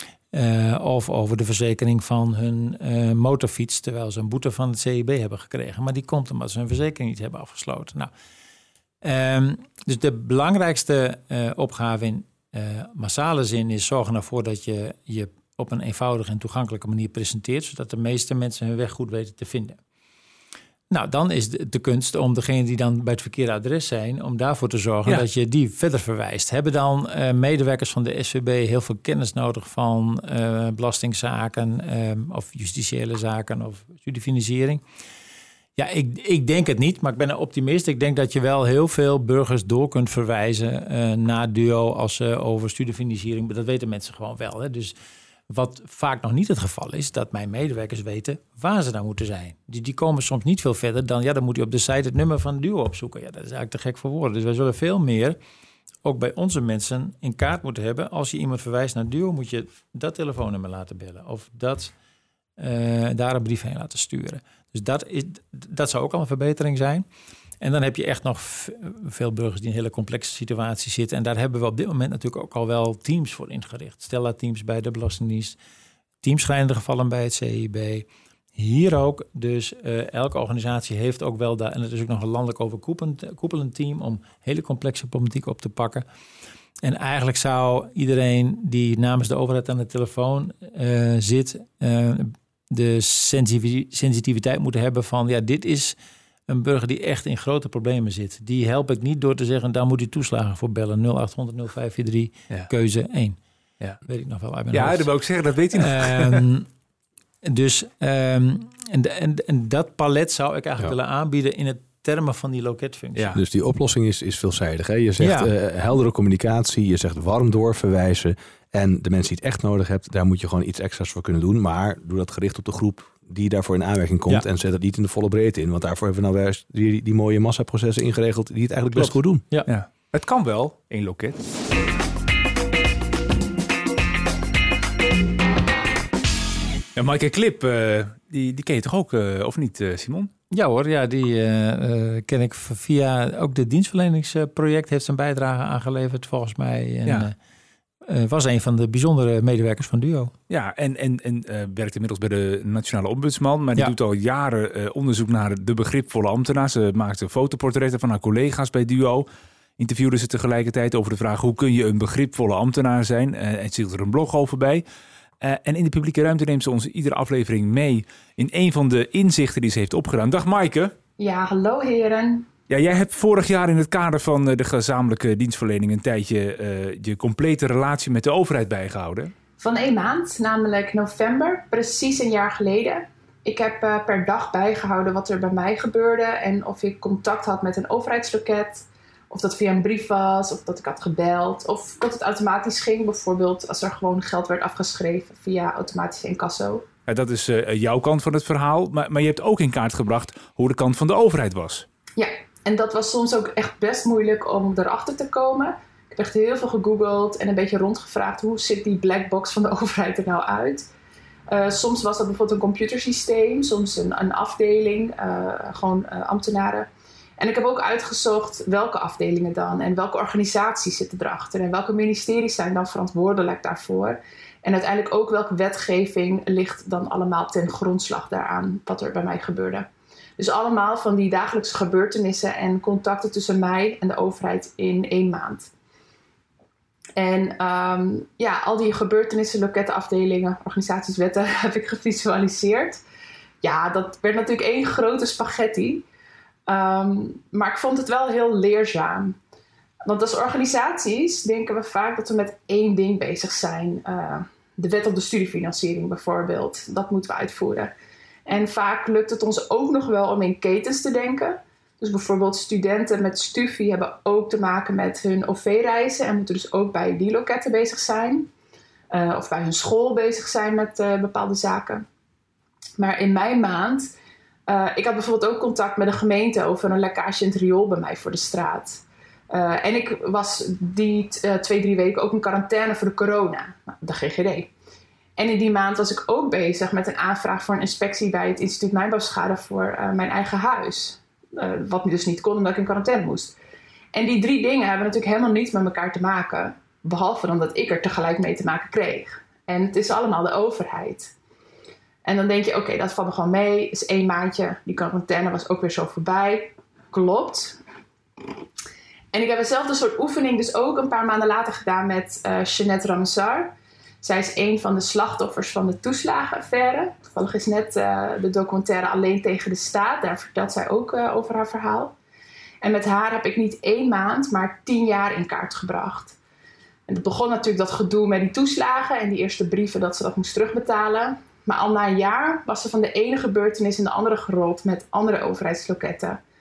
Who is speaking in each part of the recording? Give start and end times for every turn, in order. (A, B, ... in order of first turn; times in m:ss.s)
0:00.3-0:08.1 A
0:09.0-0:19.8 A
0:20.9-0:34.8 A
0:35.8-0:45.0 A
0:45.5-0:55.4 A
0:56.0-1:01.9 A
1:02.6-1:07.0 A
1:07.6-1:15.6 A
1:16.2-1:26.0 A
1:26.8-1:36.0 A
1:36.5-1:43.4 A
1:44.0-1:45.1 A
1:44.7-1:46.4 B
1:45.7-1:46.7 A
1:47.4-1:53.3 A
1:53.1-1:53.4 B
1:53.3-2:09.4 C
1:55.2-1:55.5 A
2:09.0-2:09.7 A
2:09.7-2:11.4 B
2:17.0-2:20.3 B
2:20.5-2:27.3 A
2:28.0-2:30.3 A
2:30.5-2:39.2 B
2:39.8-2:44.8 B
2:45.4-2:50.9 B
2:51.2-2:52.5 D
2:52.7-2:59.3 B
2:59.6-3:16.8 D
3:17.1-3:21.8 B
3:22.2-3:30.8 D
3:31.5-3:49.9 D
3:50.4-3:55.7 D
3:57.2-4:03.0 D
4:03.6-4:06.0 D
4:06.7-4:09.4 D
4:10.0-4:17.9 D
4:18.5-4:28.5 D
4:29.1-4:32.0 D
4:33.0-4:34.1 D
4:34.7-4:44.7 D
4:45.4-4:53.5 D
4:54.1-5:01.3 D
5:02.2-5:07.8 D
5:09.3-5:22.1 D
5:22.8-5:26.4 D
5:27.1-5:36.4 D